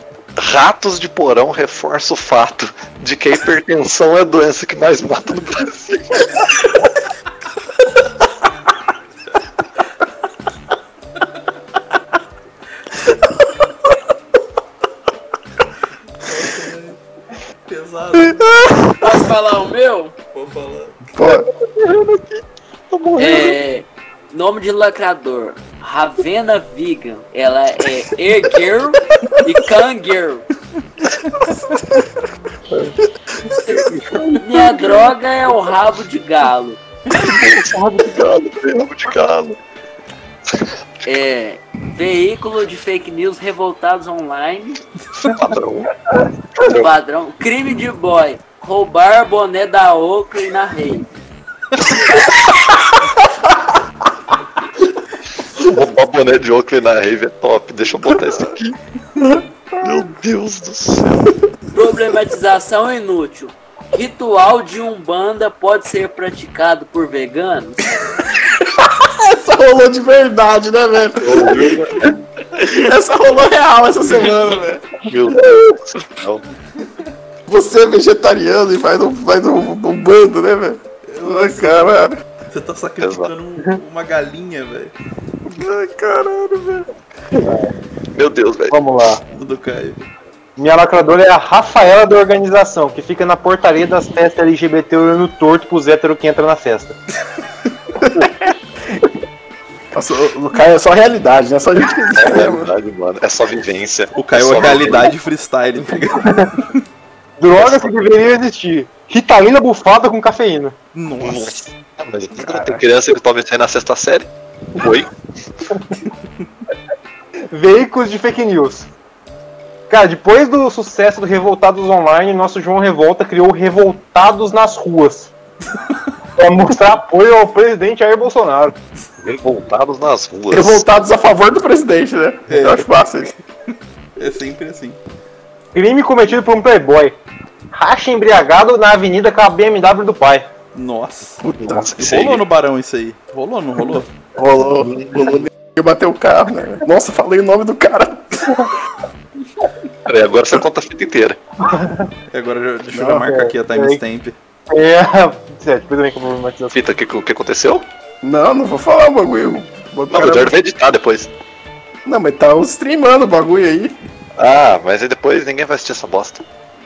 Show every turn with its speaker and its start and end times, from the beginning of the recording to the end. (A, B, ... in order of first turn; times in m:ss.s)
0:00.4-0:06.6 A
0:16.2-0:17.0 B
0:17.7-0:18.8 B
0:18.4-0:18.8 C
0:19.0-0:20.1 D
0:20.3-0:21.0 B
0:21.1-0:21.5 C
0:21.2-0:23.6 A
0:23.2-0:30.4 D
0:31.6-0:32.1 C
0:33.6-0:36.8 D
0:33.7-0:34.4 A
0:34.6-0:35.0 C
0:37.1-0:39.6 A
0:41.0-0:44.8 D
0:45.2-0:46.0 A
0:46.5-0:46.9 A
0:46.7-0:51.1 D
0:55.5-0:58.8 A
0:59.2-0:59.9 C
0:59.8-1:01.2 A
1:01.7-1:07.8 D
1:08.6-1:15.7 C
1:11.2-1:12.2 A
1:15.0-1:16.4 A
1:17.5-1:22.2 C
1:21.1-1:21.9 B
1:22.5-1:24.9 B
1:23.0-1:23.3 A
1:25.4-1:27.4 C
1:28.1-1:28.8 A
1:28.7-1:29.2 E
1:29.3-1:30.0 B
1:30.6-1:37.0 E
1:38.0-1:39.1 C
1:39.9-1:42.7 C
1:42.1-1:45.1 A
1:44.1-1:46.8 B
1:46.2-1:46.5 E
1:47.4-1:50.8 E
1:47.5-1:48.0 A
1:50.9-1:51.6 B
1:51.2-1:55.1 A
1:52.4-1:52.8 C
1:57.5-1:58.9 E
1:59.9-2:05.3 E
2:06.4-2:08.8 E
2:09.2-2:10.8 A
2:10.5-2:13.3 C
2:12.5-2:12.9 B
2:14.2-2:15.0 B
2:15.7-2:17.2 E
2:17.7-2:20.5 E
2:20.7-2:21.4 B
2:21.4-2:22.0 C
2:21.6-2:22.4 A
2:22.0-2:24.1 B
2:24.4-2:28.6 C
2:24.8-2:25.4 A
2:30.0-2:31.4 A
2:31.6-2:32.1 E
2:32.3-2:34.3 B
2:32.9-2:33.3 C
2:33.3-2:34.0 E
2:34.7-2:36.8 E
2:36.7-2:37.8 A
2:38.2-2:40.5 C
2:40.1-2:41.3 A
2:42.0-2:44.0 C
2:44.4-2:46.4 A